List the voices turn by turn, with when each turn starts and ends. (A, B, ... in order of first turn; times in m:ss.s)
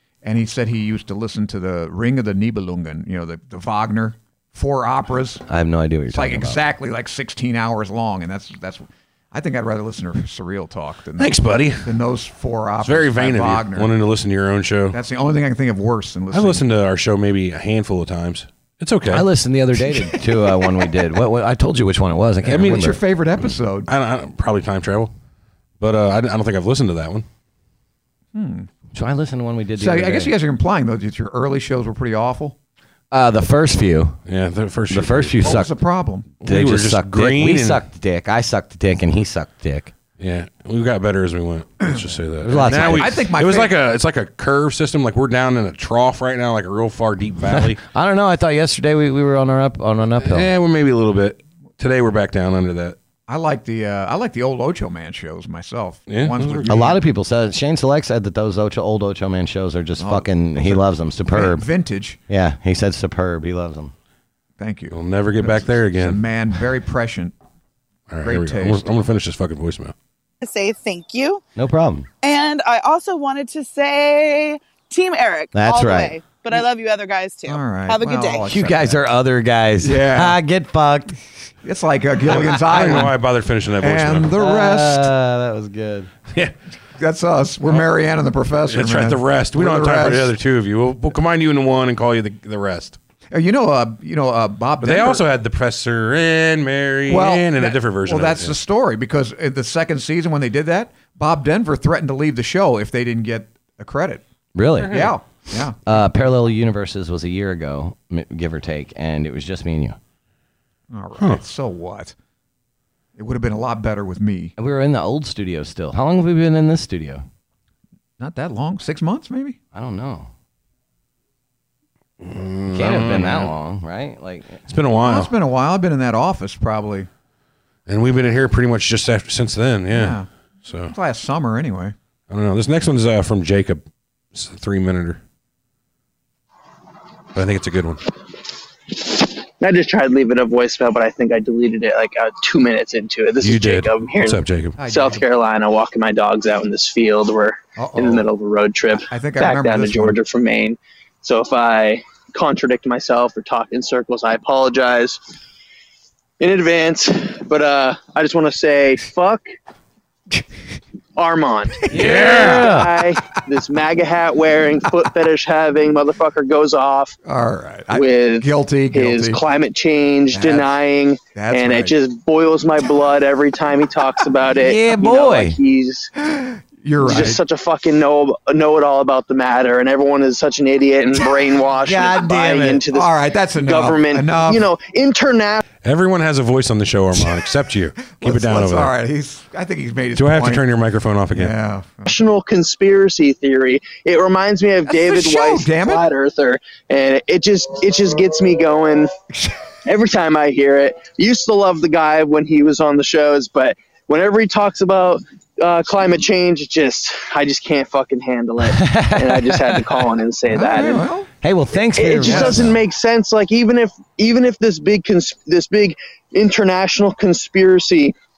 0:00.2-0:05.4 A
0:05.5-0:06.6 B
0:06.1-0:14.0 A
0:11.2-0:11.9 C
0:12.8-0:15.0 C
0:14.9-0:16.6 A
0:16.3-0:19.3 C
0:19.1-0:23.0 B
0:22.4-0:22.9 C
0:22.5-0:23.9 A
0:23.9-0:25.1 C
0:25.8-0:27.3 C
0:28.3-0:28.7 A
0:28.9-0:30.3 B
0:29.8-0:32.6 A
0:33.1-0:34.2 B
0:34.3-0:35.5 C
0:34.9-0:35.7 B
0:35.4-0:36.3 A
0:36.4-0:37.8 C
0:36.4-0:39.9 B
0:40.2-0:47.8 C
0:41.8-0:43.8 A
0:42.4-0:43.1 B
0:47.5-0:50.5 B
0:50.2-0:53.0 C
0:53.3-0:57.0 A
0:56.1-0:56.9 C
0:56.7-1:01.6 B
1:00.0-1:02.2 A
1:02.3-1:03.9 B
1:04.6-1:07.4 A
1:04.9-1:06.2 C
1:08.1-1:09.9 C
1:08.2-1:08.9 A
1:10.4-1:11.4 D
1:11.6-1:12.1 B
1:12.2-1:18.4 D
1:15.5-1:16.2 B
1:17.5-1:19.1 A
1:18.4-1:21.2 B
1:19.8-1:20.4 A
1:21.6-1:23.2 A
1:22.5-1:24.3 C
1:23.8-1:25.1 A
1:24.4-1:26.1 B
1:27.0-1:30.4 A
1:28.7-1:33.0 C
1:33.3-1:35.2 A
1:34.8-1:38.6 C
1:37.1-1:44.2 A
1:44.6-1:45.1 B
1:44.8-1:45.1 C
1:44.8-1:45.8 A
1:45.9-1:50.0 B
1:50.9-1:52.2 A
1:53.2-1:54.6 A
1:54.6-1:57.2 B
1:58.2-1:59.6 A
1:59.7-2:00.3 B
2:02.2-2:03.5 C
2:02.7-2:04.6 B
2:04.7-2:05.3 C
2:05.0-2:07.1 A
2:07.9-2:10.9 C
2:09.9-2:10.3 A
2:10.9-2:12.0 A
2:12.3-2:15.2 C
2:17.4-2:18.0 C
2:18.9-2:35.2 E
2:23.4-2:24.8 C
2:24.8-2:25.2 A
2:27.8-2:28.3 A
2:29.1-2:30.2 A
2:36.4-2:39.4 E
2:41.2-2:47.2 E
2:41.9-2:42.8 C
2:41.9-2:42.9 B
2:42.0-2:42.3 A
2:47.2-2:49.4 A
2:47.9-2:56.1 E
2:50.3-2:50.7 A
2:51.3-2:52.0 A
2:54.5-2:55.6 B
2:56.2-2:57.4 A
2:57.0-3:05.6 E
3:01.8-3:02.8 B
3:02.9-3:04.7 A
3:05.8-3:08.9 C
3:07.2-3:07.5 A
3:08.1-3:10.7 A
3:10.2-3:11.5 C
3:11.3-3:12.1 A
3:12.1-3:19.1 E
3:14.9-3:16.1 A
3:19.8-3:31.1 E
3:28.6-3:29.8 B
3:30.5-3:31.3 A
3:31.4-3:32.7 B
3:32.0-3:38.2 E
3:32.2-3:32.7 A